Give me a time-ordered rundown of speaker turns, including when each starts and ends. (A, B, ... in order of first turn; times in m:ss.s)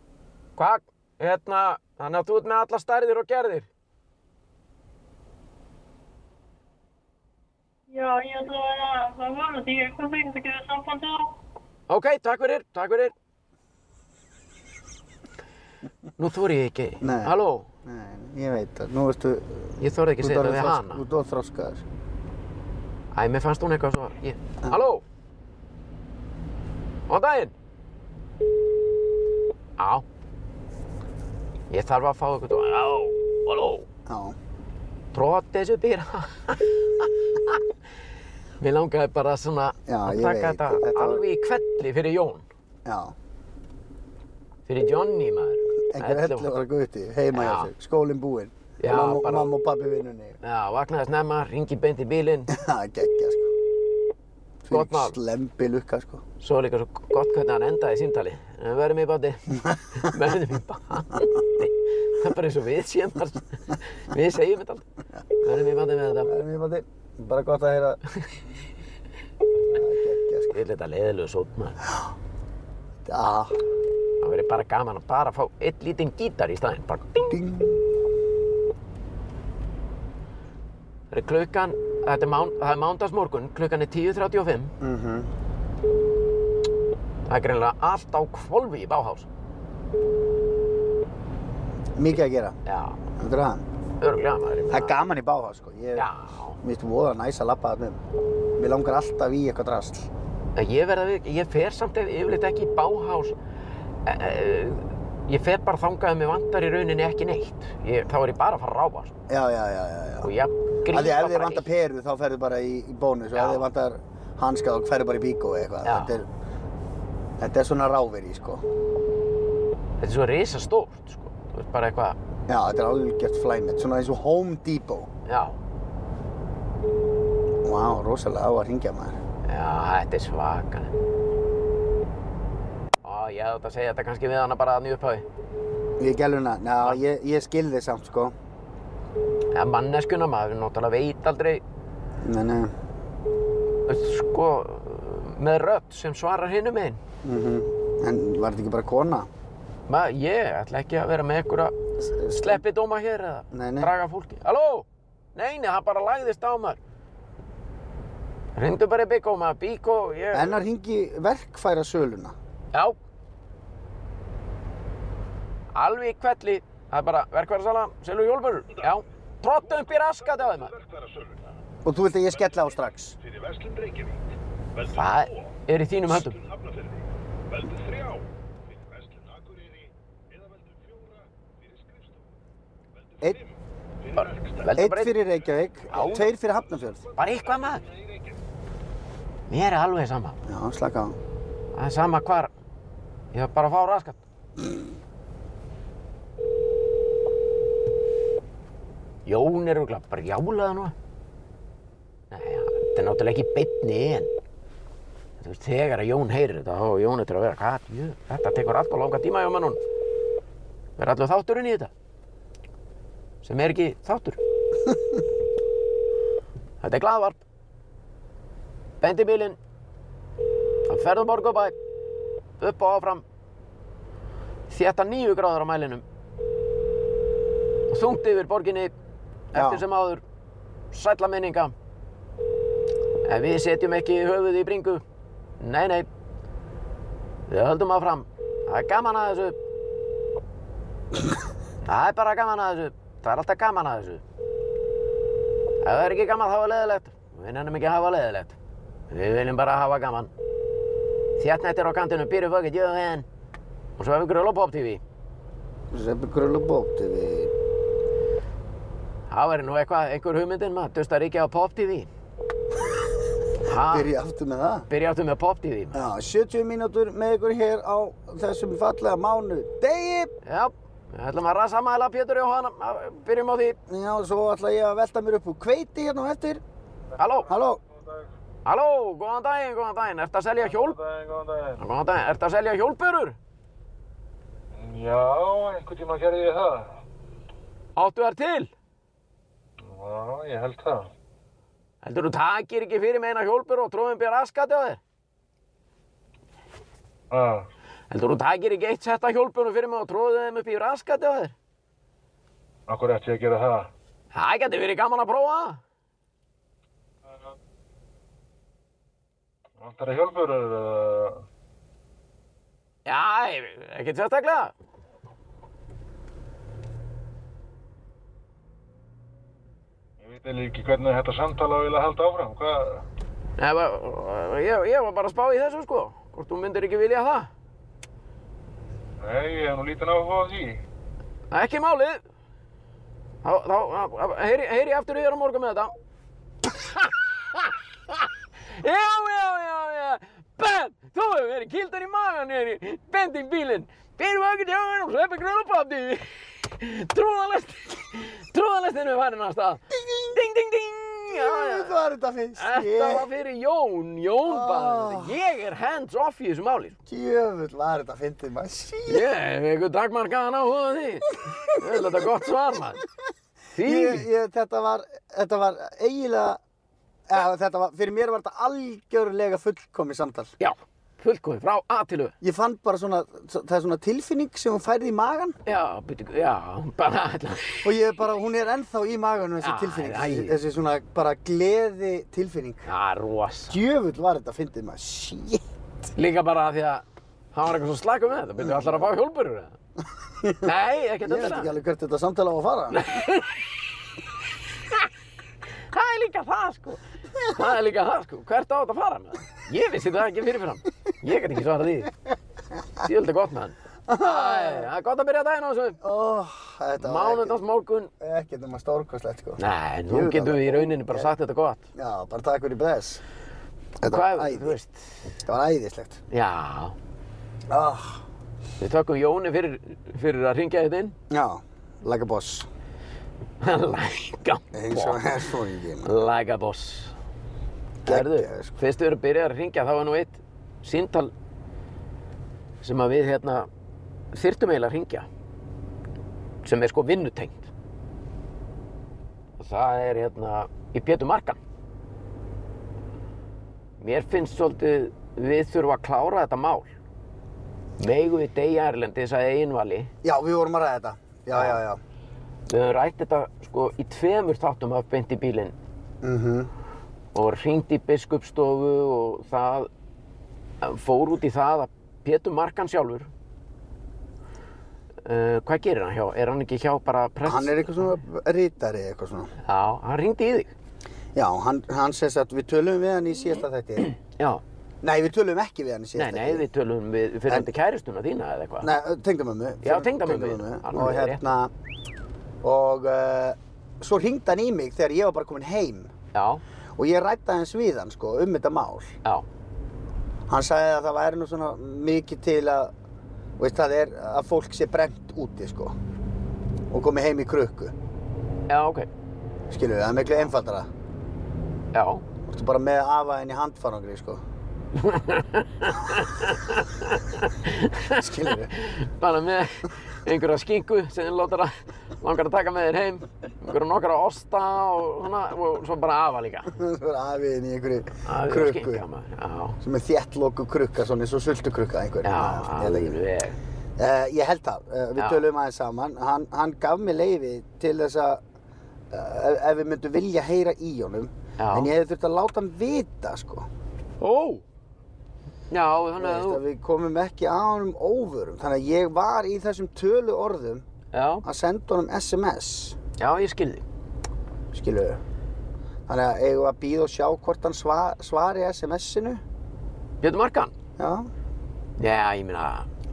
0:00.6-0:03.7 A
0:07.9-0:11.3 B
0:11.9-0:13.1 A
0:16.2-0:17.7 A
0:17.0-0:21.8 C
0:19.8-0:21.0 A
0:23.1-0:25.0 A
0:27.1-0:27.5 A
0:29.8-0:30.0 A
0:31.7-0:33.9 A
0:34.1-0:34.4 C
0:35.1-0:37.6 A
0:38.6-0:42.4 A
0:39.9-0:41.2 C
0:42.8-0:43.2 C
0:44.7-0:46.5 A
0:45.9-0:50.4 C
0:47.3-0:47.7 A
0:48.8-0:49.5 A
0:50.4-0:52.5 A
0:52.5-0:53.5 C
0:54.6-0:56.2 C
0:54.7-0:55.2 A
0:56.4-1:04.8 A
1:05.4-1:06.3 A
1:06.3-1:08.0 C
1:09.7-1:10.6 C
1:10.5-1:11.8 A
1:13.0-1:13.6 C
1:14.2-1:17.3 A
1:17.3-1:17.8 C
1:21.1-1:24.7 A
1:24.8-1:25.3 C
1:27.3-1:29.3 A
1:32.0-1:32.6 C
1:32.7-1:33.0 A
1:33.2-1:33.6 C
1:34.0-1:35.0 A
1:34.7-1:36.1 C
1:36.0-1:36.6 A
1:36.6-1:38.0 C
1:38.6-1:40.1 C
1:40.6-1:43.4 A
1:44.0-1:49.1 A
1:49.3-1:50.3 C
1:50.2-1:51.7 A
1:50.9-1:56.3 C
1:53.4-1:53.6 A
1:55.8-1:56.2 A
1:57.4-1:58.6 C
2:00.0-2:02.2 A
2:02.5-2:05.1 C
2:05.3-2:05.6 A
2:07.6-2:09.2 C
2:09.5-2:10.9 A
2:13.0-2:15.3 A
2:16.0-2:18.4 C
2:19.5-2:21.6 A
2:22.2-2:22.7 C
2:23.9-2:27.0 A
2:27.2-2:29.3 C
2:29.9-2:31.8 A
2:32.0-2:32.6 C
2:32.3-2:36.8 A
2:33.5-2:33.9 C
2:38.6-2:40.6 A
2:40.3-2:42.4 C
2:45.7-2:50.7 A
2:49.6-2:51.4 D
2:51.8-2:53.2 C
2:52.3-2:55.6 D
2:54.9-2:56.4 A
2:56.1-3:02.2 D
3:03.0-3:04.8 D
3:04.2-3:05.2 A
3:04.8-3:07.0 C
3:05.8-3:08.4 D
3:05.9-3:06.3 A
3:07.2-3:07.8 A
3:09.5-3:10.4 A
3:10.5-3:11.2 C
3:11.7-3:12.5 A
3:13.3-3:14.2 A
3:19.3-3:21.0 A
3:22.3-3:24.3 A
3:25.4-3:29.8 A
3:31.0-3:31.9 A
3:33.4-3:34.4 A
3:36.8-3:37.4 A
3:39.0-3:39.6 A
3:40.9-3:41.8 A
3:42.6-3:43.2 A
3:44.7-3:46.0 A
3:47.9-3:48.9 A
3:49.5-3:50.2 A
3:49.5-3:49.8 C
3:50.9-3:51.7 A
3:53.2-3:55.0 A
3:55.6-3:56.1 A
3:57.5-3:59.6 A
4:01.9-4:04.2 A
4:05.8-4:08.6 A
4:09.1-4:10.3 A
4:11.4-4:13.3 A
4:14.0-4:15.0 A
4:15.9-4:17.5 C
4:19.3-4:22.1 A
4:23.6-4:24.1 A
4:23.7-4:24.9 C
4:24.9-4:26.0 A
4:25.9-4:30.3 C
4:30.4-4:33.8 A
4:33.9-4:36.6 C
4:37.2-4:37.5 A
4:37.5-4:37.8 C
4:37.8-4:38.3 E
4:38.7-4:41.0 A
4:40.6-4:41.8 E
4:41.8-4:43.4 A
4:44.7-4:46.9 E
4:48.0-4:48.7 A
4:49.8-4:51.1 E
4:52.0-4:55.0 A
4:57.3-4:57.7 E
4:58.1-5:01.5 A
5:02.9-5:03.9 E
5:04.3-5:05.8 A
5:09.8-5:11.4 E
5:13.1-5:14.7 A
5:20.2-5:23.0 E
5:23.6-5:27.5 A
5:29.2-5:30.8 E
5:31.5-5:32.2 A
5:33.4-5:35.9 A
5:36.8-5:52.0 A
5:49.9-5:50.4 C
5:51.3-5:53.3 C
5:52.6-5:57.0 A
5:54.4-5:55.3 C
5:57.1-5:59.3 C
5:59.1-6:03.0 A
6:01.7-6:02.0 C
6:03.7-6:04.3 A
6:03.8-6:06.6 C
6:07.3-6:10.5 C
6:10.6-6:12.3 A
6:12.4-6:15.6 C
6:15.7-6:17.9 A
6:17.8-6:22.9 C
6:19.6-6:20.6 A
6:22.9-6:23.8 A
6:23.7-6:25.6 C
6:26.2-6:29.8 A
6:28.6-6:29.0 C
6:30.4-6:30.7 C
6:30.6-6:31.7 A
6:31.2-6:33.2 C
6:32.9-6:33.6 A
6:35.9-6:42.1 A
6:43.0-6:46.0 A
6:44.1-6:44.9 C
6:46.0-6:47.6 C
6:47.0-6:48.1 A
6:48.2-6:51.3 C
6:49.6-6:51.8 A
6:52.0-6:53.2 C
6:54.0-6:54.8 C
6:54.0-6:55.3 A
6:55.5-6:56.2 C
6:56.3-6:57.0 A
6:57.7-6:58.2 C
6:58.8-7:01.2 A
7:01.3-7:02.7 C
7:03.6-7:05.4 A
7:04.7-7:06.1 C
7:06.0-7:07.1 A
7:08.0-7:08.8 C
7:08.1-7:11.3 A
7:12.8-7:13.7 A
7:14.3-7:15.3 A
7:16.6-7:17.7 A
7:19.6-7:21.6 A
7:24.0-7:26.9 A
7:28.0-7:30.1 A
7:30.2-7:32.0 C
7:31.5-7:31.8 A
7:32.7-7:35.7 A
7:36.2-7:36.7 C
7:37.3-7:39.9 A
7:40.8-7:43.3 A
7:45.2-7:48.2 A
7:47.4-7:49.5 C
7:49.6-7:50.7 A
7:51.4-7:54.1 C
7:54.2-7:54.6 A
7:55.0-7:56.6 C
7:56.2-7:58.9 A
7:58.8-8:01.7 C
7:59.8-8:01.4 A
8:02.6-8:06.1 C
8:06.3-8:06.6 A
8:07.0-8:09.1 C
8:10.5-8:12.9 C
8:13.6-8:16.0 C
8:16.9-8:17.9 C
8:18.7-8:19.1 A
8:19.7-8:20.9 C
8:21.9-8:22.2 A
8:22.4-8:24.4 C
8:25.0-8:36.7 A
8:28.1-8:28.7 C
8:36.7-8:39.0 C
8:38.2-8:39.8 A
8:39.8-8:43.2 C
8:42.2-8:43.6 A
8:44.0-8:48.4 C
8:45.2-8:45.4 A
8:49.1-8:53.7 C
8:51.6-8:51.9 A
8:54.2-8:54.6 A
8:55.7-8:56.6 A
8:56.2-9:00.8 C
9:01.1-9:01.4 A
9:01.4-9:03.0 C
9:03.2-9:03.8 A
9:04.7-9:05.2 C
9:06.1-9:09.4 C
9:10.2-9:10.7 A
9:11.0-9:11.3 C
9:12.0-9:12.9 A